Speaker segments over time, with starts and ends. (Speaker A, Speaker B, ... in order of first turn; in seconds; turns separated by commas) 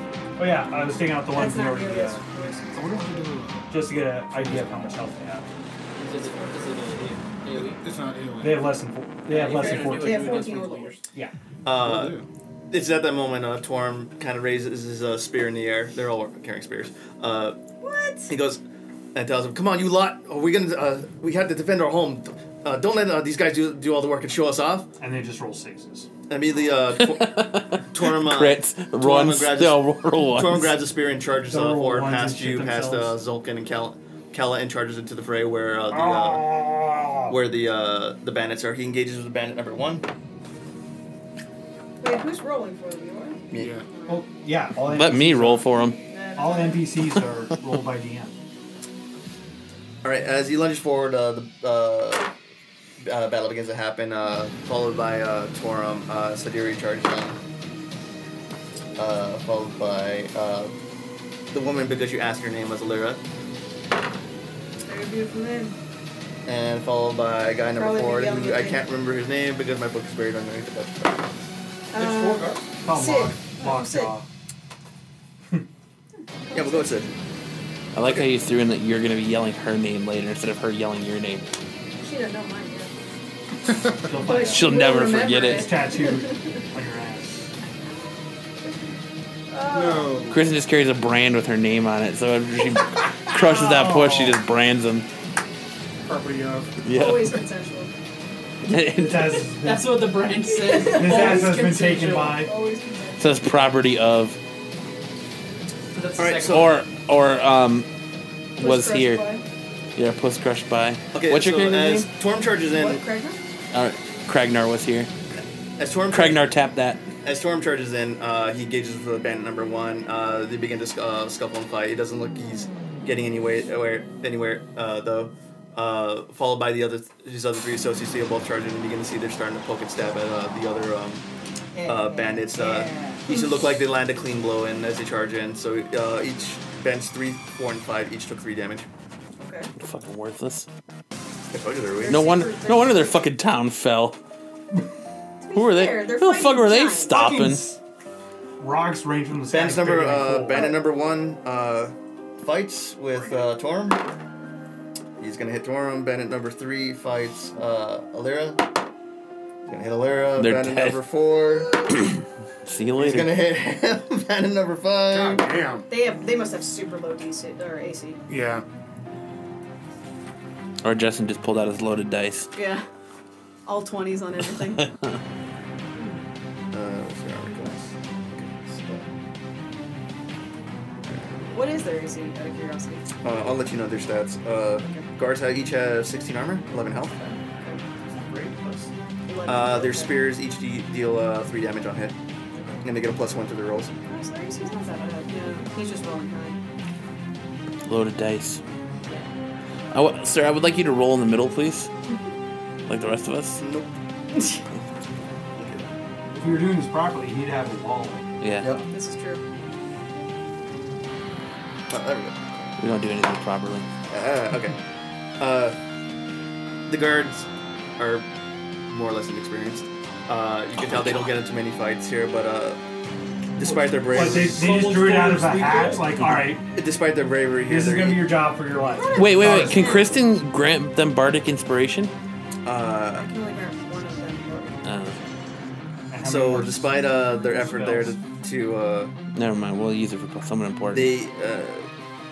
Speaker A: 0.4-2.2, Speaker B: 1.3-3.3, Speaker C: 2.7-4.8, Speaker A: 3.7-5.5, Speaker D: 6.0-7.8, Speaker B: 6.2-6.8, Speaker C: 7.5-8.8, Speaker A: 8.4-10.4, Speaker D: 9.3-11.0, Speaker B: 9.4-11.0, Speaker E: 11.7-12.2, Speaker C: 11.8-12.3, Speaker E: 12.7-17.6, Speaker B: 17.8-18.3, Speaker E: 18.3-18.6, Speaker E: 19.1-24.9, Speaker A: 25.0-26.1, Speaker E: 26.3-36.6, Speaker F: 27.0-30.7, Speaker A: 31.5-33.2, Speaker A: 35.9-37.4, Speaker E: 37.3-40.0, Speaker B: 42.0-44.2, Speaker C: 43.5-43.9, Speaker A: 44.1-45.8, Speaker F: 44.8-46.0, Speaker B: 46.1-46.9, Speaker A: 46.4-48.3, Speaker E: 50.0-52.3, Speaker E: 53.0-57.4, Speaker E: 59.0-60.8, Speaker E: 61.5-63.2, Speaker B: 64.9-65.8, Speaker E: 66.5-71.4, Speaker B: 67.8-68.9, Speaker B: 71.9-74.1, Speaker D: 72.0-72.6, Speaker A: 72.8-74.3, Speaker B: 76.5-77.1, Speaker E: 76.5-77.1, Speaker F: 77.9-81.5, Speaker B: 82.0-82.9, Speaker A: 84.0-85.0, Speaker B: 84.1-86.6, Speaker F: 84.4-85.7, Speaker A: 85.5-87.5, Speaker B: 89.5-90.2, Speaker C: 89.7-90.4, Speaker F: 90.3-95.1, Speaker A: 93.3-94.4, Speaker C: 96.0-96.8, Speaker F: 96.8-97.4, Speaker B: 96.9-97.9, Speaker F: 98.6-99.5, Speaker A: 98.8-100.1, Speaker D: 99.6-102.5, Speaker B: 100.5-101.6, Speaker A: 100.8-102.5, Speaker B: 102.3-103.3, Speaker F: 103.2-104.4, Speaker D: 105.9-106.7, Speaker E: 106.2-106.7, Speaker F: 106.5-107.9, Speaker F: 108.6-109.2, Speaker B: 108.6-109.5, Speaker F: 110.0-112.1, Speaker E: 111.1-113.0, Speaker B: 112.7-113.4, Speaker F: 113.7-115.1, Speaker E: 115.8-116.5, Speaker F: 116.1-117.0, Speaker E: 117.2-131.2, Speaker B: 131.8-133.6, Speaker E: 131.9-138.9, Speaker B: 139.4-139.7, Speaker F: 139.8-140.7, Speaker E: 141.5-142.4, Speaker B: 142.0-143.2, Speaker F: 142.1-144.2, Speaker B: 145.4-147.2, Speaker F: 145.5-147.7, Speaker A: 147.1-147.8, Speaker A: 148.6-150.7, Speaker E: 149.5-154.0, Speaker E: 155.2-158.6, Speaker E: 159.7-161.7, Speaker F: 160.4-161.0, Speaker F: 162.6-163.4, Speaker E: 163.0-165.5, Speaker C: 165.1-165.9, Speaker B: 165.9-168.2, Speaker C: 168.3-168.7, Speaker F: 170.8-172.5, Speaker B: 172.5-172.8, Speaker B: 173.7-174.9, Speaker F: 174.8-175.0, Speaker E: 176.7-179.1, Speaker E: 181.1-181.5, Speaker B: 181.5-183.1, Speaker E: 183.2-187.2, Speaker B: 187.4-187.8, Speaker A: 188.1-188.9, Speaker B: 189.3-190.2, Speaker E: 189.5-192.2, Speaker B: 192.5-192.8, Speaker E: 192.8-193.9, Speaker B: 194.1-196.6, Speaker F: 197.9-198.6, Speaker F: 199.9-201.9, Speaker F: 202.9-203.6, Speaker E: 203.6-203.9, Speaker E: 205.6-205.9, Speaker A: 206.3-208.3, Speaker F: 208.4-208.7, Speaker B: 208.9-209.4, Speaker E: 211.9-212.7, Speaker F: 212.8-213.9, Speaker E: 214.1-214.8, Speaker E: 215.4-215.8, Speaker E: 216.9-217.5, Speaker E: 218.0-218.3, Speaker E: 218.9-222.8, Speaker E: 223.6-224.8, Speaker A: 224.1-226.7, Speaker E: 226.7-228.4, Speaker A: 227.6-229.9, Speaker B: 228.8-230.1, Speaker F: 229.2-232.1, Speaker E: 232.7-233.3, Speaker B: 233.1-234.9, Speaker F: 234.8-235.2, Speaker A: 236.1-238.2, Speaker E: 236.2-239.1, Speaker F: 239.3-241.1, Speaker E: 240.9-241.9